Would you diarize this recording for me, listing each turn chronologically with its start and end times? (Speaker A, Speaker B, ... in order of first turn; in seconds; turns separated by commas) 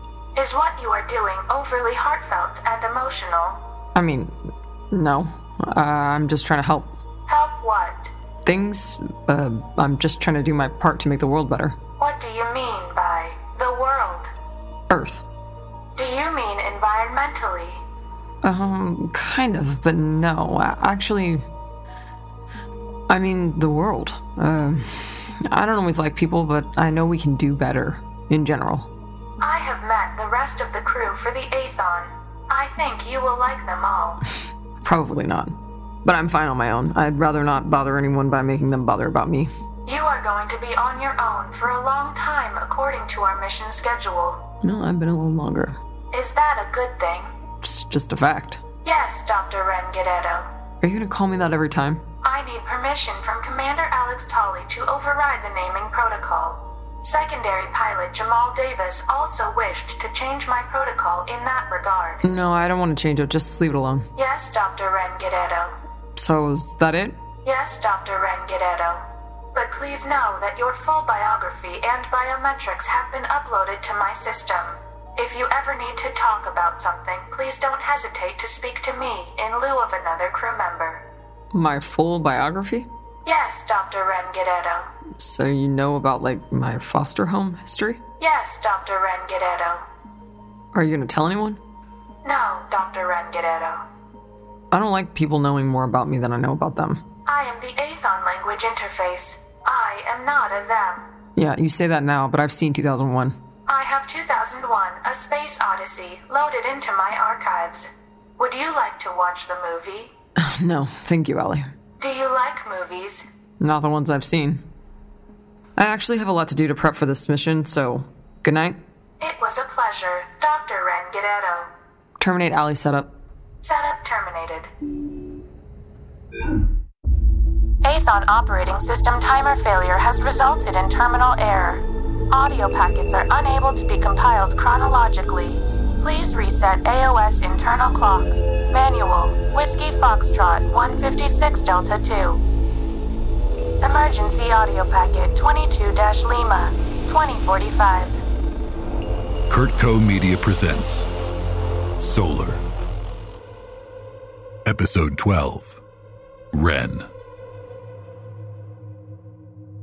Speaker A: 0.3-3.6, Speaker B: 3.9-7.0, Speaker A: 7.3-8.1, Speaker B: 8.4-11.8, Speaker A: 12.0-14.3, Speaker B: 14.9-15.2, Speaker A: 15.9-17.8, Speaker B: 18.4-21.4, Speaker B: 23.1-28.9, Speaker A: 29.4-34.2, Speaker B: 34.8-39.5, Speaker A: 39.9-44.4, Speaker B: 44.6-45.8, Speaker A: 46.1-47.3, Speaker B: 47.6-48.6, Speaker A: 48.8-50.5, Speaker B: 50.8-52.0, Speaker A: 52.2-62.2, Speaker B: 62.2-64.1, Speaker A: 64.2-65.8, Speaker B: 66.2-67.2, Speaker A: 67.4-81.0, Speaker B: 81.5-82.9, Speaker A: 83.2-84.9, Speaker B: 85.2-88.0, Speaker A: 88.2-89.8, Speaker B: 90.7-91.6, Speaker A: 92.2-93.8, Speaker B: 94.7-97.0, Speaker A: 97.3-101.0, Speaker B: 101.4-103.3, Speaker A: 103.7-110.1, Speaker B: 110.4-111.7, Speaker A: 112.0-113.2, Speaker B: 113.6-114.6, Speaker B: 115.8-118.8, Speaker A: 119.2-121.7, Speaker B: 122.2-123.1, Speaker A: 123.6-124.7, Speaker A: 127.8-142.4, Speaker A: 143.8-148.2, Speaker C: 149.5-151.1, Speaker C: 152.0-152.6, Speaker C: 154.7-155.8, Speaker C: 156.5-157.1